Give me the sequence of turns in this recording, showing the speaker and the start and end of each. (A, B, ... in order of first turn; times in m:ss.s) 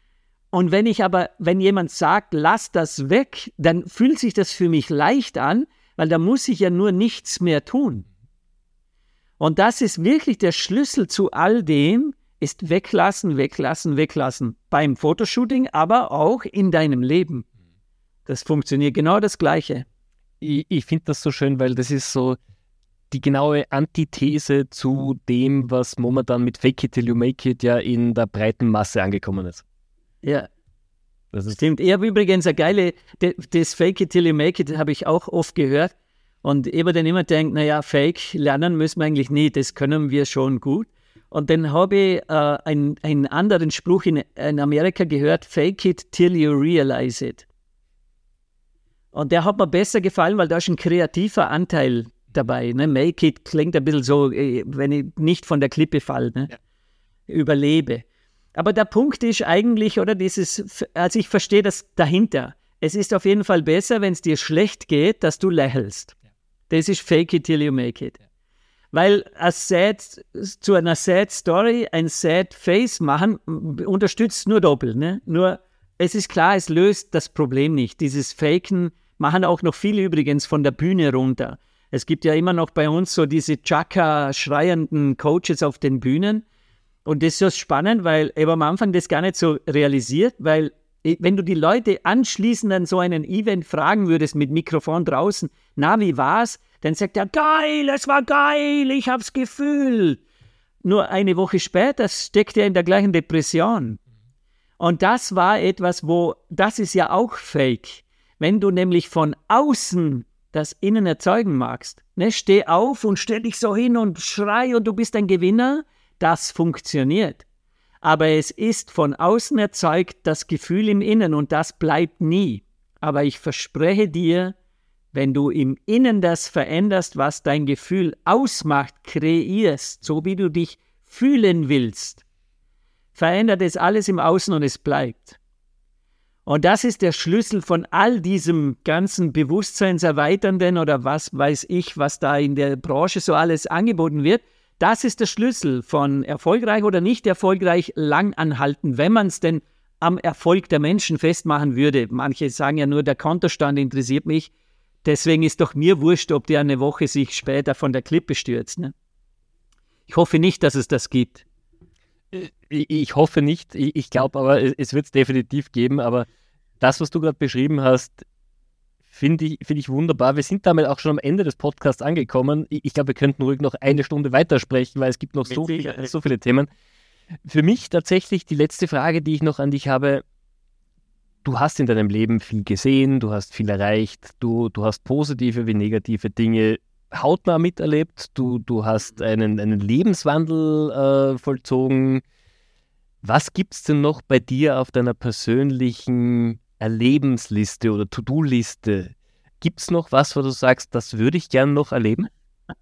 0:00.5-0:08.0 A
0:09.4-0:17.4 A
0:18.3-0:19.8 A
0:20.4-0:22.4 B
0:23.1-0:29.6 B
0:30.2-0:30.5 A
0:31.3-0:31.6 B
0:31.5-0:47.4 A
0:49.1-0:56.5 A
0:57.3-1:06.1 A
1:06.7-1:08.2 A
1:08.9-1:26.4 A
1:27.0-1:40.2 A
1:40.8-1:44.0 A
1:44.8-1:57.4 A
1:58.0-2:04.6 A
2:05.1-2:12.2 A
2:13.1-2:15.4 A
2:16.4-2:34.5 A
2:35.0-2:38.9 A
2:40.1-2:41.4 A
2:42.3-2:46.3 B
2:46.8-2:48.2 B
2:49.1-2:56.7 B
2:55.5-2:56.1 A
2:57.4-3:00.2 B
3:01.4-3:12.2 B
3:13.2-3:22.3 B